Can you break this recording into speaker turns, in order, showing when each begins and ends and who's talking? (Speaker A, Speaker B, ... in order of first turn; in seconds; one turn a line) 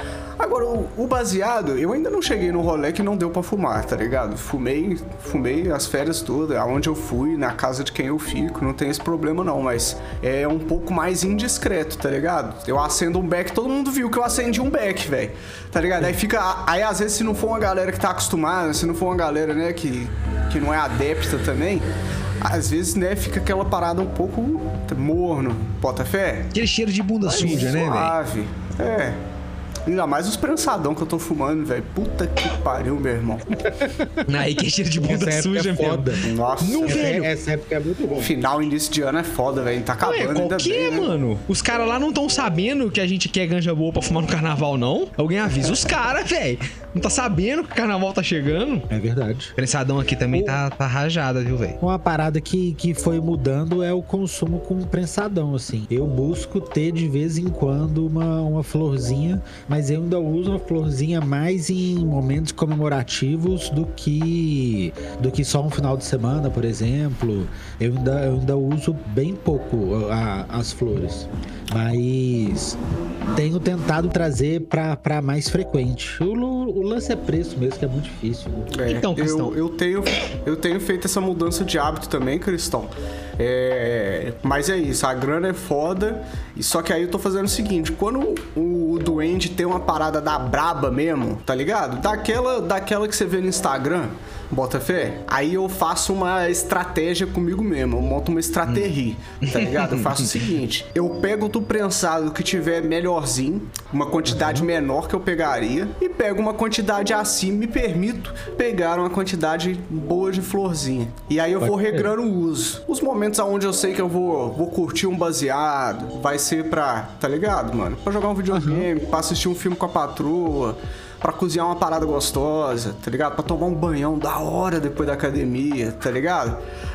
Speaker A: 0.4-21.8
Speaker A: 22.4-26.5
Speaker B: 26.5-28.1
Speaker A: 27.2-29.2
Speaker A: 29.9-33.6
Speaker C: 33.7-34.2
Speaker B: 34.2-37.3
Speaker C: 35.0-36.2
Speaker A: 36.2-37.2
Speaker C: 36.8-38.3
Speaker A: 38.2-41.1
Speaker B: 40.0-48.9
Speaker C: 48.9-49.5
Speaker B: 49.6-51.8
Speaker C: 50.3-50.6
Speaker C: 51.8-72.8
Speaker C: 73.3-78.7
Speaker A: 78.7-126.6
Speaker B: 78.8-79.5
Speaker B: 99.4-100.3
Speaker C: 104.3-104.7
Speaker C: 111.6-112.1
Speaker C: 118.5-118.9